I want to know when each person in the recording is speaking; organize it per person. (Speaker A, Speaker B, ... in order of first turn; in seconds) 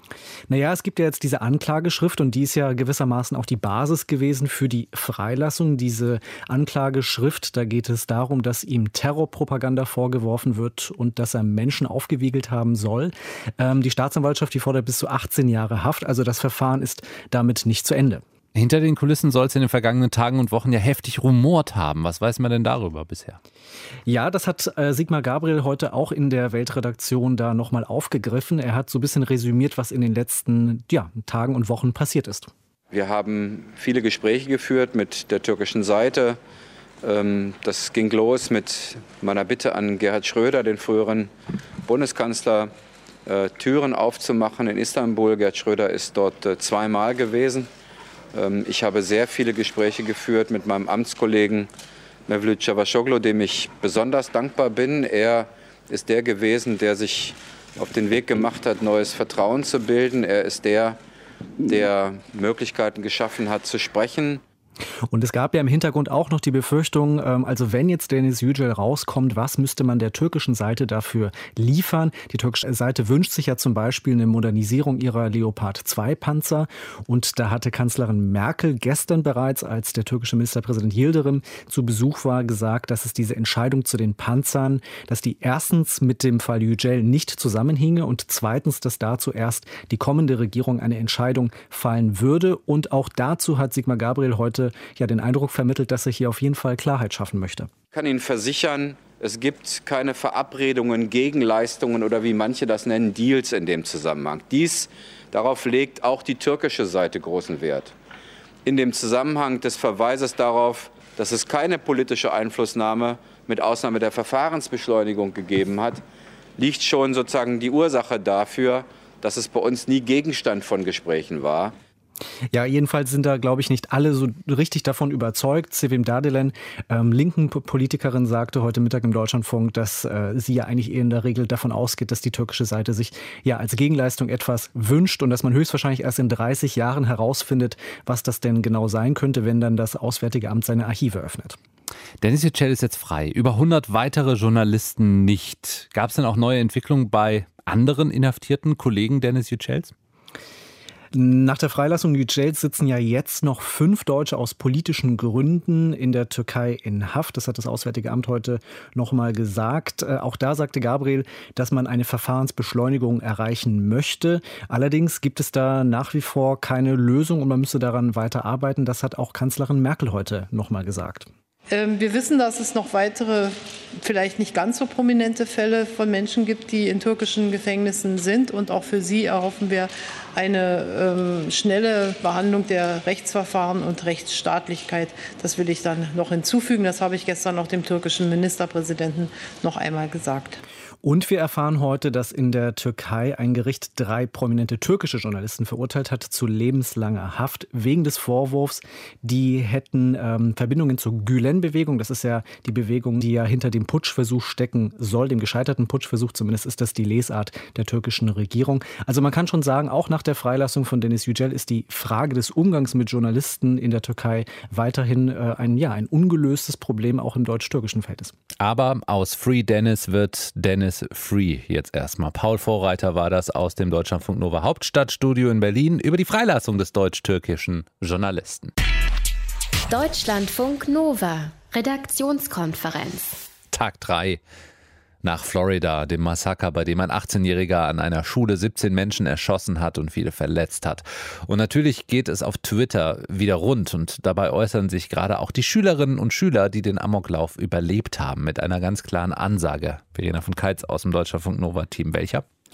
Speaker A: 0.5-18.2, 24.1-32.5, 65.1-97.7, 122.5-141.6, 151.1-171.3, 191.0-218.3
Speaker B: 18.6-23.4, 142.2-149.9, 218.6-228.7, 233.7-234.4, 235.2-252.5
Speaker C: 32.9-36.4, 37.0-41.3, 41.9-42.7, 43.3-47.7, 48.3-51.7, 52.3-61.0, 61.7-64.4, 97.9-107.9, 108.7-116.0, 116.6-121.7
Speaker D: 171.7-190.6
Speaker E: 229.9-233.4